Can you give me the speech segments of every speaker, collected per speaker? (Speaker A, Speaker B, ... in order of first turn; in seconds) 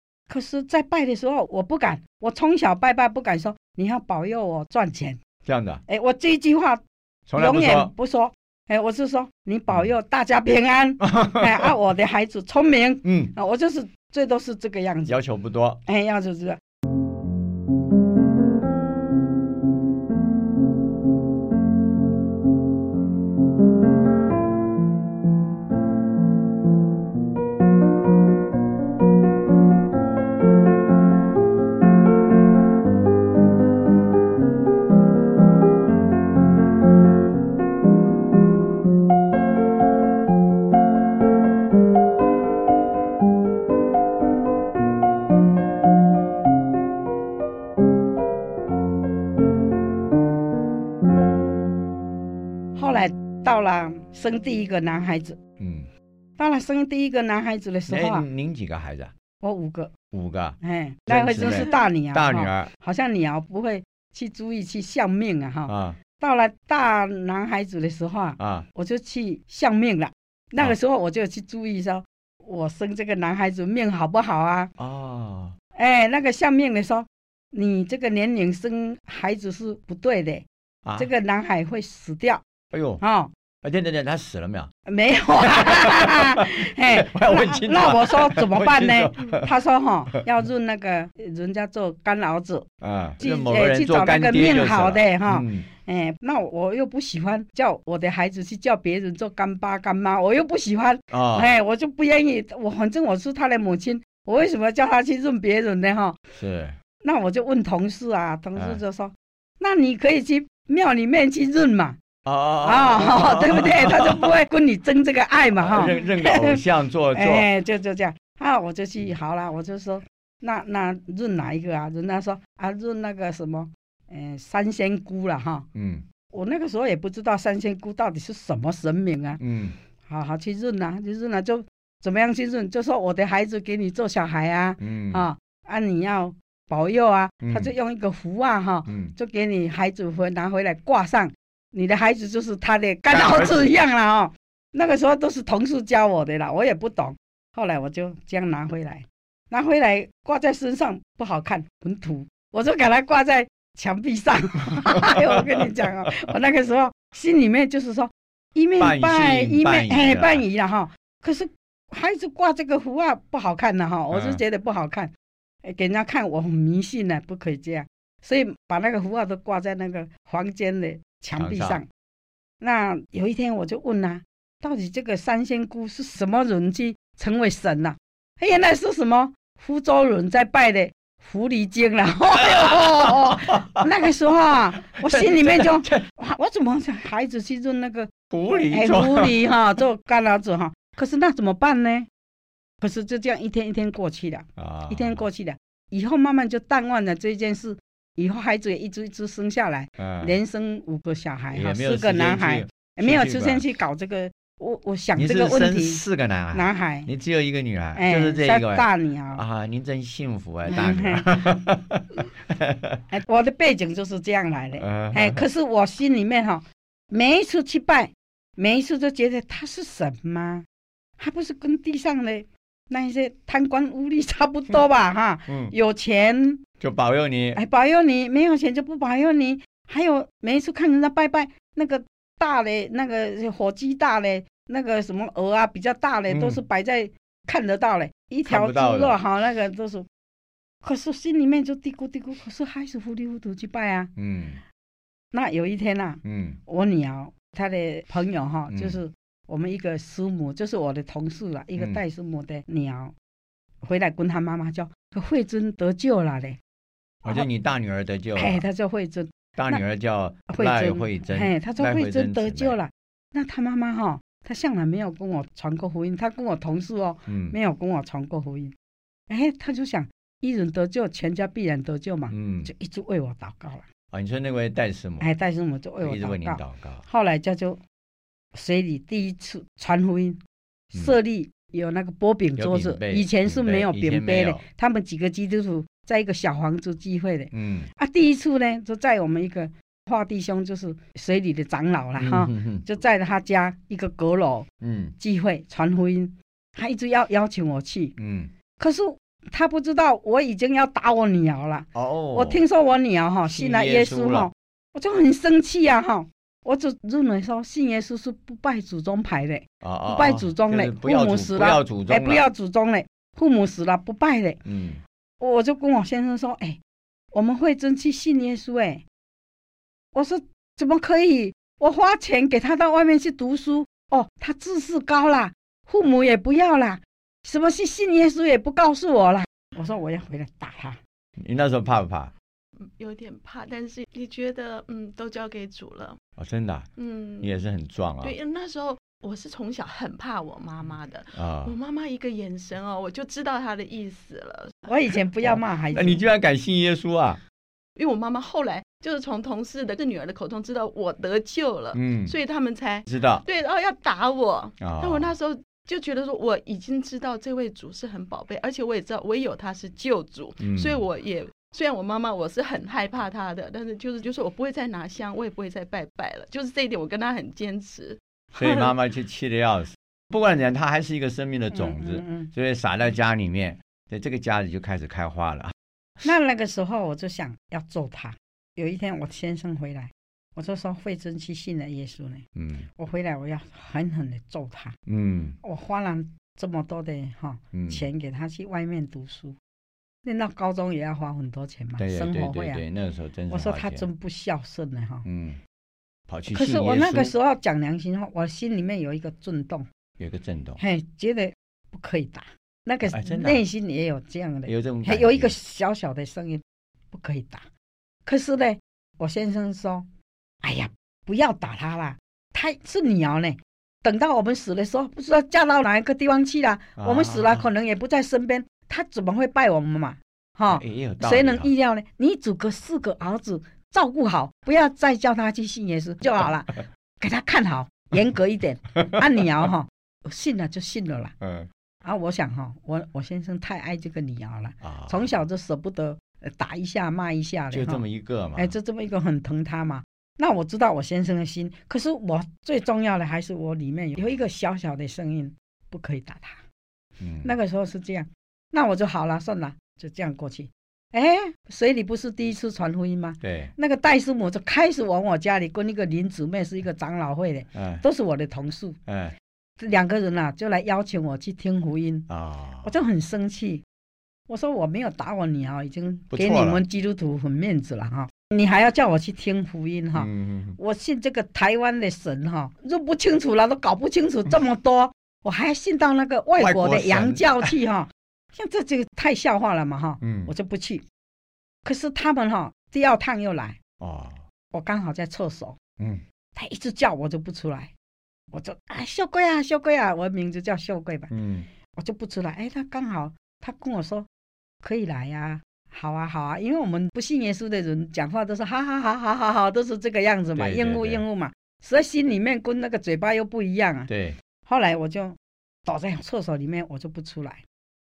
Speaker A: 0.3-5.2, 5.9-6.8, 7.3-15.2, 15.8-16.6, 52.7-55.4, 56.4-58.3, 59.4-59.9, 60.6-74.7, 75.8-80.4, 81.0-82.4, 83.0-83.3, 84.9-92.7, 93.2-106.2, 107.0-112.0, 112.6-116.6, 117.1-125.7, 126.3-129.4, 130.0-165.1, 165.6-171.9, 172.6-192.1, 192.8-207.1, 207.9-209.4, 210.7-211.6, 213.1-220.6, 221.2-226.6, 227.5-240.1, 240.8-244.1, 245.3-253.1, 253.8-256.6, 258.4-259.8, 260.5-268.7, 269.3-273.8, 275.2-277.8, 278.5-280.4, 280.9-294.7, 295.2-298.1, 298.8-314.6, 315.4-316.8, 317.3-319.0, 320.1-331.0, 344.9-346.2, 371.7-372.5, 376.2-382.4, 382.9-384.9, 385.6-389.5, 390.2-392.8, 393.5-395.2, 396.5-399.9, 400.8-407.7, 408.2-410.1, 410.6-431.3, 432.0-438.0, 438.5-446.6, 447.4-459.0, 459.8-462.3, 462.8-463.8, 464.5-481.0, 481.8-483.8, 484.7-485.8, 486.6-487.9, 488.5-491.3, 491.9-494.3, 494.8-504.1, 504.6-507.6
Speaker B: 5.4-5.8, 7.3-7.9, 11.0-11.7, 13.0-13.3, 15.1-15.8, 55.6-55.9, 57.9-59.1, 60.1-62.7, 65.7-66.0, 68.4-68.7, 74.8-75.5, 80.8-81.1, 82.7-83.0, 83.6-84.7, 85.4-89.5, 92.8-95.7, 101.1-101.5, 106.3-106.8, 108.5-108.8, 112.2-114.3, 115.5-117.5, 125.7-126.0, 129.4-129.8, 134.8-135.2, 137.4-137.7, 138.9-139.1, 143.1-143.7, 155.0-155.6, 158.8-160.4, 164.1-164.4, 171.3-171.8, 182.4-183.8, 184.9-186.0, 188.3-189.4, 194.6-195.2, 200.0-200.3, 201.5-203.7, 205.2-213.0, 214.8-215.4, 225.5-225.7, 226.8-227.6, 236.3-236.6, 238.4-239.2, 244.2-244.6, 246.2-246.6, 248.7-249.0, 257.2-258.6, 259.6-262.8, 267.3-267.6, 272.3-272.7, 274.1-275.3, 276.0-277.0, 282.6-284.6, 287.5-287.9, 292.2-292.8, 294.8-295.1, 298.2-298.5, 301.9-302.6, 303.5-304.5, 309.8-312.4, 314.6-315.0, 331.4-332.3, 336.4-338.4, 341.3-341.7, 345.4-347.4, 351.9-352.4, 353.1-353.4, 354.8-355.4, 360.6-361.0, 368.5-375.7, 382.6-382.9, 385.1-385.6, 387.7-388.1, 392.0-394.1, 395.2-395.6, 396.3-397.3, 400.2-400.8, 403.1-403.6, 404.7-405.5, 417.0-417.7, 420.7-421.7, 429.0-429.2, 431.4-431.7, 434.8-435.3, 437.7-438.7, 447.2-447.5, 453.4-453.7, 457.7-458.0, 459.1-459.3, 462.3-462.9, 466.3-466.8, 470.1-470.8, 476.6-477.7, 480.2-480.5, 484.0-484.4, 491.3-491.7, 500.6-501.2, 504.1-504.4
Speaker C: 332.8-336.2, 337.0-337.6, 338.2-344.9, 347.9-368.9